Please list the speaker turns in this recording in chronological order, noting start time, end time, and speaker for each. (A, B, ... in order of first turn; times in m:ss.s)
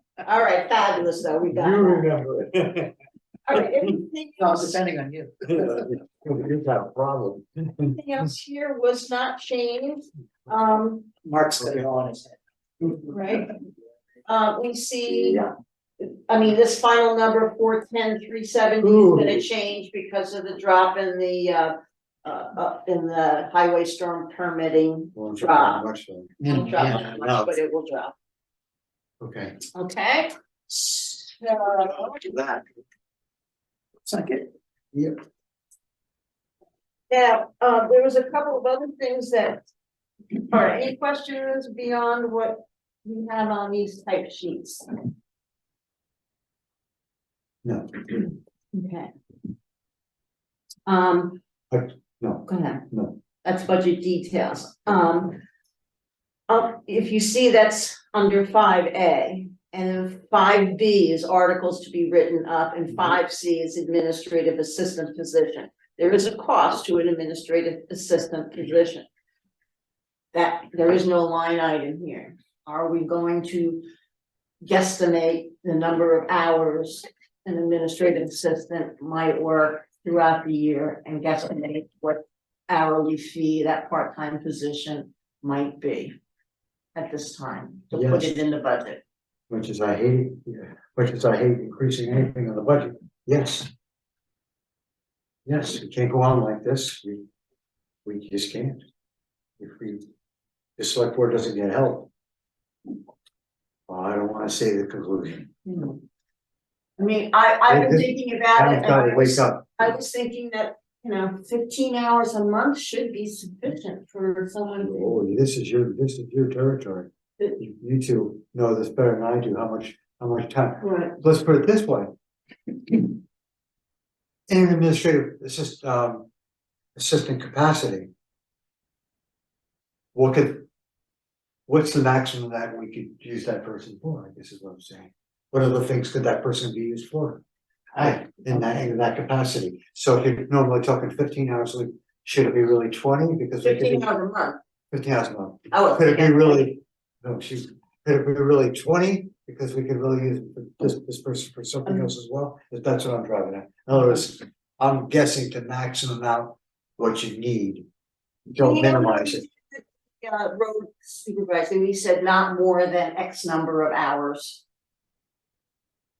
0:00.2-0:02.1 A
0:01.5-0:02.9 B
0:03.5-0:04.7 A
0:04.4-0:05.8 C
0:05.5-0:08.0 B
0:07.9-0:11.1 A
0:11.2-0:12.4 C
0:11.6-0:11.8 B
0:12.8-0:13.6 A
0:14.3-0:15.4 A
0:16.0-0:21.7 A
0:18.8-0:19.4 B
0:22.2-0:25.9 A
0:25.2-0:27.5 B
0:26.4-0:26.9 C
0:26.5-0:28.1 A
0:29.2-0:29.6 B
0:29.7-0:32.2 A
0:34.1-0:34.5 C
0:37.1-0:39.6 A
0:40.4-0:44.9 A
0:47.6-0:48.2 B
0:48.7-0:49.1 A
0:50.9-0:51.4 A
0:51.7-0:53.2 B
0:52.5-0:52.8 A
0:53.4-0:55.4 A
0:56.5-1:09.1 A
1:10.3-1:13.8 A
1:14.7-1:26.1 A
1:27.0-1:29.0 A
1:27.9-1:28.4 B
1:29.5-1:33.7 B
1:35.5-1:37.2 B
1:38.0-1:38.8 B
1:39.6-1:40.0 B
1:40.8-1:42.1 B
1:43.9-1:45.5 B
1:45.7-1:46.0 A
1:47.0-1:55.2 A
1:47.7-1:49.9 B
1:54.8-2:02.1 B
2:00.8-2:01.2 A
2:04.5-2:06.3 B
2:07.0-2:08.1 B
2:10.1-2:10.7 B
2:11.7-2:17.4 B
2:18.0-2:18.6 C
2:18.0-2:24.1 B
2:23.6-2:24.6 A
2:24.9-2:37.9 B
2:25.7-2:26.8 A
2:38.5-2:39.4 B
2:38.6-2:44.6 A